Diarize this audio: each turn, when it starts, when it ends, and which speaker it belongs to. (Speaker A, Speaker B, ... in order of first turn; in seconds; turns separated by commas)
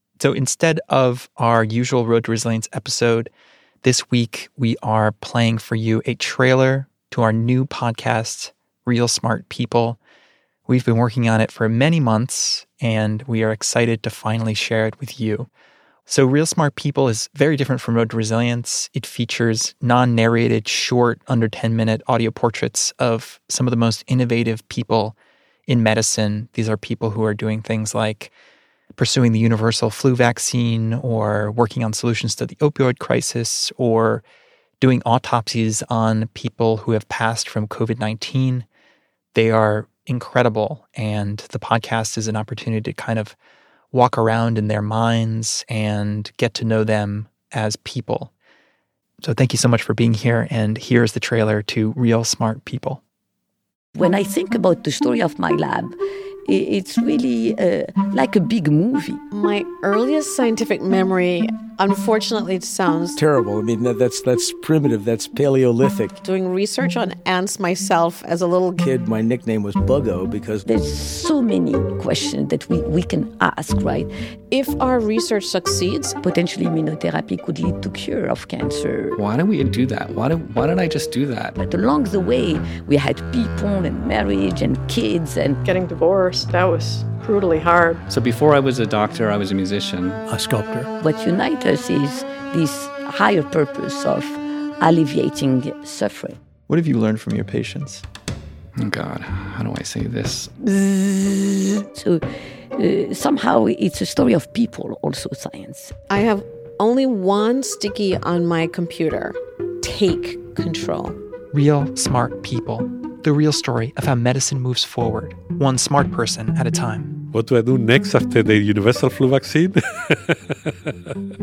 Speaker A: 0.2-3.3, Speaker A: 3.8-10.0, Speaker A: 10.7-15.5, Speaker A: 16.1-25.1, Speaker A: 25.7-28.3, Speaker A: 29.0-34.2, Speaker A: 34.8-38.6, Speaker A: 39.3-43.4, Speaker A: 43.9-48.3, Speaker A: 49.2-53.0, Speaker B: 53.9-59.2, Speaker C: 59.3-63.2, Speaker D: 63.2-66.2, Speaker C: 66.2-68.8, Speaker D: 68.8-70.6, Speaker B: 70.7-74.1, Speaker C: 74.5-76.2, Speaker B: 76.2-79.2, Speaker E: 79.2-81.5, Speaker B: 81.6-85.6, Speaker F: 85.7-88.0, Speaker E: 88.1-90.2, Speaker A: 90.4-90.9, Speaker B: 91.0-96.4, Speaker A: 96.7-98.0, Speaker E: 98.8-100.5, Speaker B: 100.6-102.2, Speaker B: 102.8-105.9, Speaker C: 106.1-111.2, Speaker A: 111.5-117.1, Speaker G: 117.3-120.9